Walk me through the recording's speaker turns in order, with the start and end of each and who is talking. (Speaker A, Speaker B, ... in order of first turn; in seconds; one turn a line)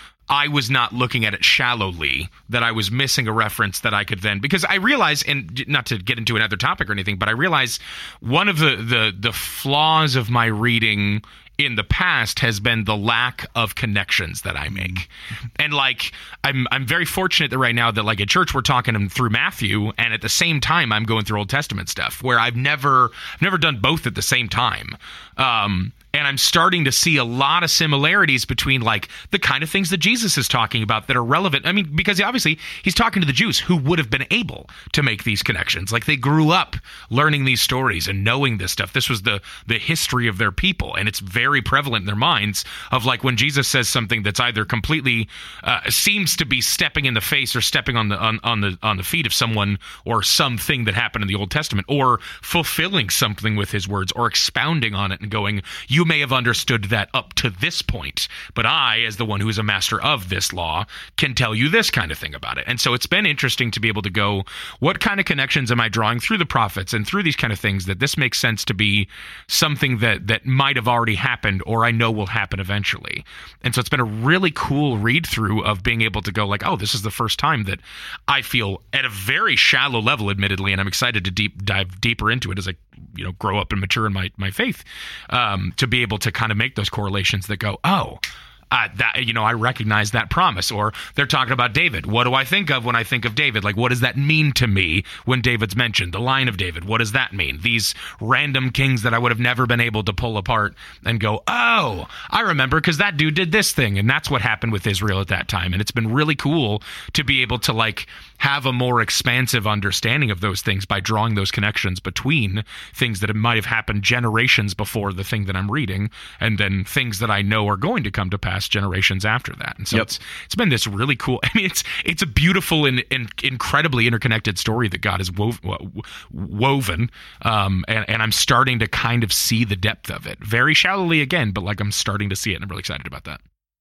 Speaker A: 0.3-133.4